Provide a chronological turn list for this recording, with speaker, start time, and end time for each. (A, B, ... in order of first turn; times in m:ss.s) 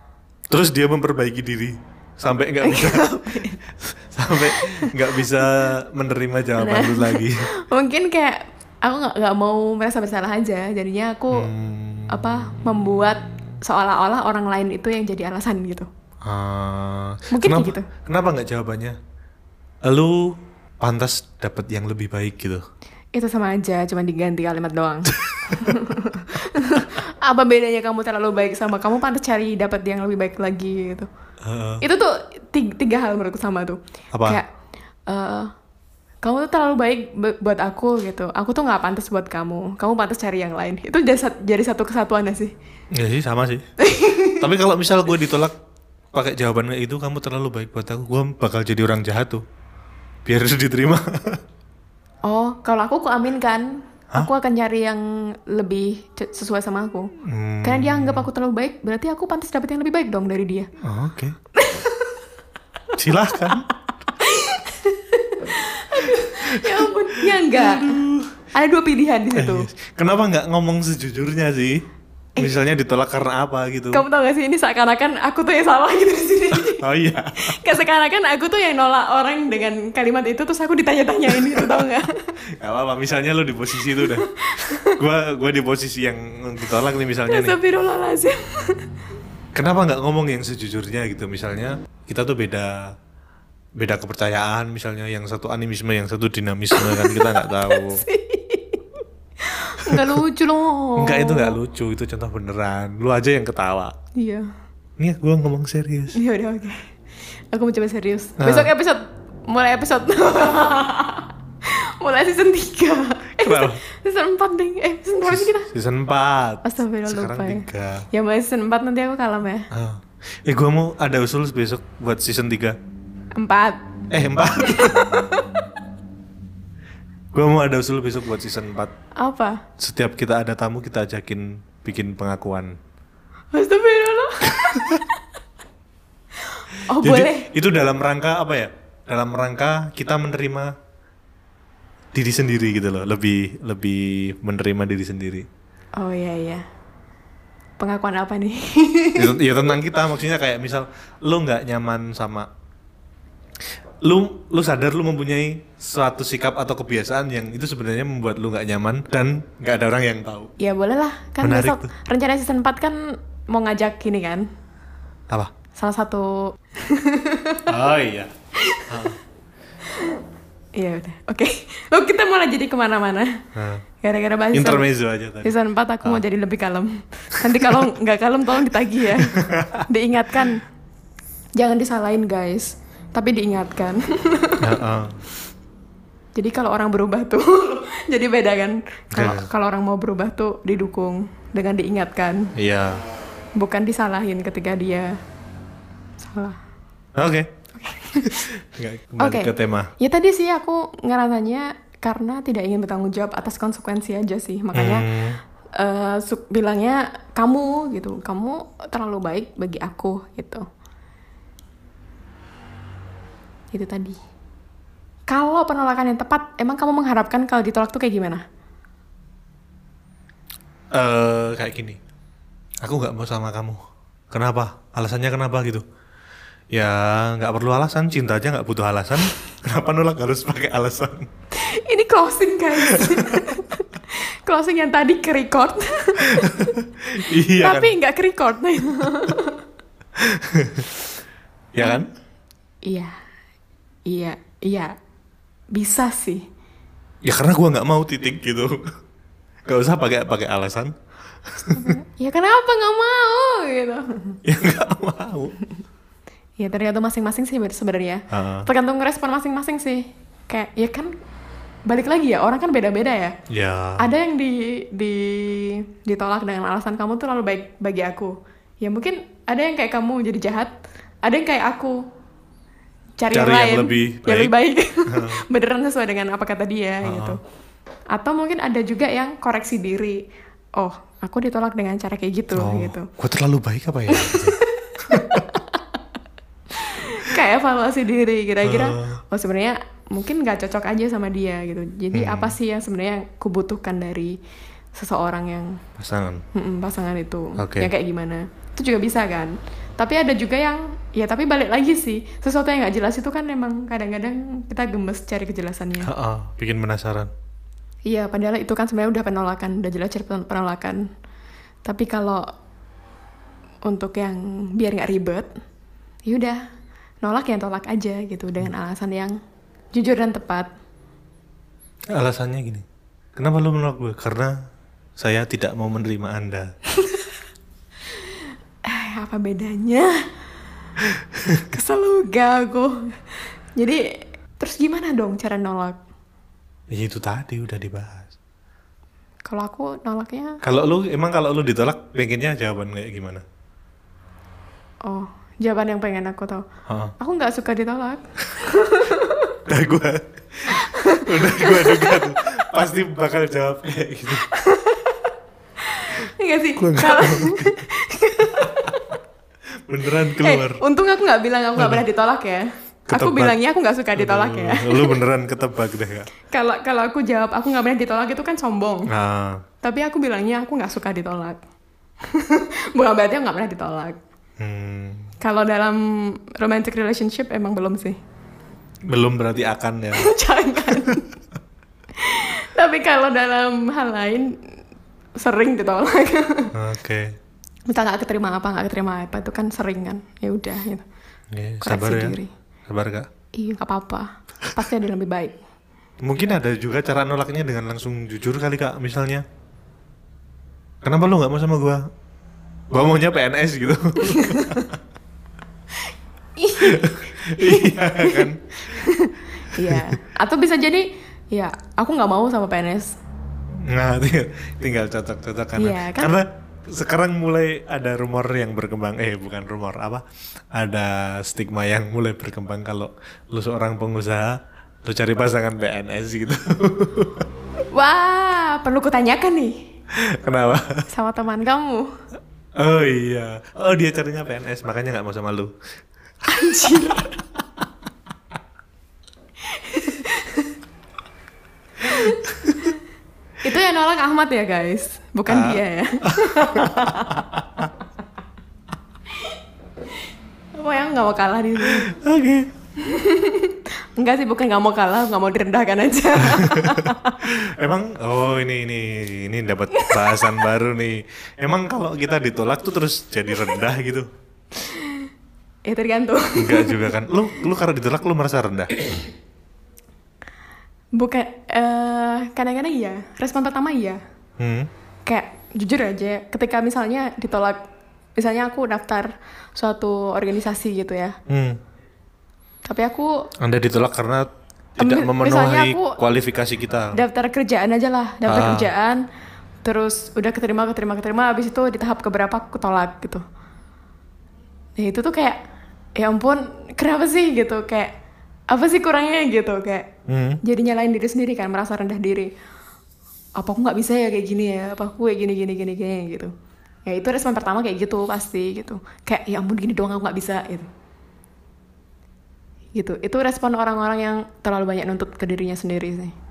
0:00.5-0:03.1 A
0:02.6-0:03.6 B
0:03.8-0:07.4 A
0:04.3-0:05.5 B
0:06.6-0:11.5 B
0:11.3-0:12.6 A
0:12.1-0:15.9 B
0:16.2-0:19.0 A
0:17.3-0:17.9 B
0:19.8-0:22.6 A
0:23.1-0:31.1 B
0:25.3-0:25.7 A
0:31.4-0:31.8 A
0:31.8-0:34.5 B
0:34.1-0:34.4 A
0:35.1-0:35.5 B
0:36.2-0:42.5 B
0:42.9-0:43.7 A
0:43.8-0:44.4 B
0:44.4-0:45.6 A
0:46.1-0:49.4 A
0:50.3-0:51.4 A
0:52.3-0:57.1 B
0:57.2-0:58.3 A
0:57.6-1:00.7 B
1:00.8-1:01.4 A
1:01.6-1:02.3 B
1:03.0-1:03.7 A
1:03.2-1:03.6 B
1:04.2-1:08.0 B
1:06.4-1:08.3 A
1:08.5-1:09.7 B
1:09.3-1:11.8 A
1:12.4-1:14.0 A
1:13.9-1:16.8 B
1:16.6-1:17.6 A
1:17.4-1:22.3 B
1:22.6-1:24.3 A
1:24.0-1:25.0 B
1:24.9-1:27.6 A
1:27.3-1:28.8 B
1:29.6-1:32.9 A
1:33.8-1:38.0 A
1:36.8-1:38.8 B
1:39.4-1:41.6 B
1:39.8-1:40.1 A
1:41.0-1:43.9 A
1:44.2-1:44.5 B
1:45.0-1:46.2 A
1:46.1-1:46.9 B
1:47.5-1:55.7 B
1:48.4-1:48.7 A
1:53.4-1:53.8 A
1:55.3-1:58.1 A
1:56.6-1:59.7 B
1:59.7-2:02.8 A
2:03.4-2:03.9 B
2:04.1-2:05.2 A
2:04.6-2:05.5 B
2:07.3-2:08.9 A
2:09.2-2:09.6 B
2:09.8-2:12.8 A
2:13.5-2:15.2 B
2:14.7-2:15.0 A
2:16.4-2:17.5 B
2:17.0-2:20.7 A
2:22.1-2:25.5 A
2:26.0-2:26.7 B
2:27.8-2:29.4 B
2:29.2-2:32.5 A
2:34.0-2:40.5 A
2:40.6-2:44.5 B
2:41.4-2:41.9 A
2:45.8-2:47.7 B
2:47.7-2:48.3 A
2:48.6-2:49.0 B
2:48.9-2:49.2 A
2:49.9-2:50.2 B
2:50.8-2:53.4 B
2:53.6-2:53.8 A
2:54.0-2:54.9 B
2:54.5-2:55.5 A
2:55.4-3:00.6 B
2:57.4-2:57.9 A
2:59.2-2:59.9 A
3:01.6-3:04.7 B
3:04.6-3:05.2 A
3:06.4-3:12.5 B
3:09.1-3:09.5 A
3:12.6-3:13.0 A
3:13.6-3:15.2 B
3:16.2-3:16.6 B
3:17.2-3:17.5 A
3:17.8-3:18.5 B
3:18.1-3:19.9 A
3:19.2-3:25.1 B
3:24.7-3:25.4 A
3:25.8-3:30.7 B
3:33.7-3:34.2 B
3:35.3-3:38.4 B
3:40.9-3:42.0 A
3:42.8-3:43.8 A
3:44.3-3:45.8 A
3:46.7-3:51.3 A
3:51.5-3:59.6 B
3:52.9-3:53.6 A
3:56.2-3:57.9 A
4:00.2-4:00.9 A
4:01.7-4:02.1 A
4:02.8-4:03.1 B
4:04.1-4:04.9 B
4:05.7-4:06.4 B
4:07.2-4:08.9 A
4:09.7-4:10.9 A
4:11.5-4:12.0 A
4:11.7-4:14.4 B
4:14.4-4:15.5 A
4:16.6-4:21.1 B
4:18.3-4:18.7 A
4:21.9-4:23.4 B
4:23.5-4:24.0 A
4:24.0-4:30.7 B
4:31.2-4:32.0 B
4:33.2-4:37.4 B
4:33.3-4:34.5 A
4:35.1-4:35.4 A
4:37.0-4:37.4 A
4:38.1-4:40.2 B
4:40.8-4:43.1 B
4:42.6-4:45.4 A
4:44.1-4:45.8 B
4:46.7-4:54.4 B
4:48.6-4:49.2 A
4:52.1-4:52.6 A
4:54.9-4:55.8 B
4:56.0-4:56.4 A
4:56.5-5:06.1 B
4:57.6-4:57.9 A
5:06.0-5:07.3 A
5:08.1-5:11.0 B
5:11.8-5:12.4 B
5:13.9-5:15.5 B
5:16.3-5:16.6 B
5:17.2-5:19.4 B
5:19.9-5:20.7 B
5:22.1-5:22.8 A
5:23.4-5:24.6 A
5:25.2-5:26.7 A
5:27.0-5:27.2 B
5:28.3-5:30.2 B
5:31.1-5:31.7 A
5:31.6-5:34.0 B
5:34.6-5:36.0 B
5:36.9-5:38.4 A
5:39.5-5:40.6 B
5:40.6-5:43.4 A
5:45.1-5:46.6 B
5:46.9-5:47.1 A
5:47.2-5:49.6 B
5:49.7-5:54.4 A
5:50.7-5:52.2 B
5:54.4-5:59.0 B
5:56.8-5:57.8 A
5:58.6-5:58.9 A
5:59.9-6:00.8 A
6:00.3-6:05.2 B
6:01.8-6:02.0 A
6:03.1-6:03.6 A
6:04.2-6:06.3 A
6:06.5-6:09.1 B
6:09.1-6:09.6 A
6:09.8-6:11.6 B
6:12.2-6:14.2 B
6:14.6-6:15.3 A
6:15.4-6:18.2 B
6:19.1-6:20.4 A
6:20.2-6:21.3 B
6:20.9-6:21.2 A
6:22.2-6:24.5 B
6:25.4-6:26.7 B
6:26.7-6:27.3 A
6:27.9-6:31.0 B
6:31.5-6:33.3 A
6:31.8-6:32.5 B
6:33.5-6:35.6 B
6:36.2-6:39.4 A
6:41.0-6:42.0 A
6:42.9-6:45.0 A
6:44.2-6:44.9 B
6:45.9-6:53.2 B
6:46.8-6:49.0 A
6:49.7-6:50.2 A
6:53.8-7:00.2 A
6:55.8-6:56.3 B
7:00.7-7:07.5 A
7:07.9-7:09.8 B
7:10.1-7:11.0 A
7:11.1-7:12.1 B
7:12.8-7:15.7 A
7:16.4-7:17.4 B
7:19.6-7:20.7 B
7:22.0-7:22.4 B
7:22.4-7:23.0 A
7:23.6-7:27.4 B
7:25.5-7:27.9 A
7:30.8-7:32.1 B
7:31.8-7:32.7 A
7:33.0-7:37.4 B
7:36.5-7:44.3 A
7:39.9-7:40.6 B
7:44.8-7:45.3 B
7:45.9-7:47.0 B
7:46.6-7:48.9 A
7:51.2-7:54.2 B
7:54.6-7:54.9 A
7:55.3-7:57.8 B
7:58.4-8:01.4 B
8:01.5-8:01.8 A
8:02.8-8:03.5 B
8:03.6-8:07.2 A
8:05.0-8:06.2 B
8:07.1-8:09.2 B
8:08.5-8:08.9 A
8:09.8-8:13.4 B
8:15.0-8:15.6 B
8:16.2-8:18.1 B
8:18.7-8:20.1 B
8:20.3-8:20.6 A
8:20.6-8:22.5 B
8:23.6-8:26.5 B
8:27.1-8:30.9 B
8:33.0-8:36.3 B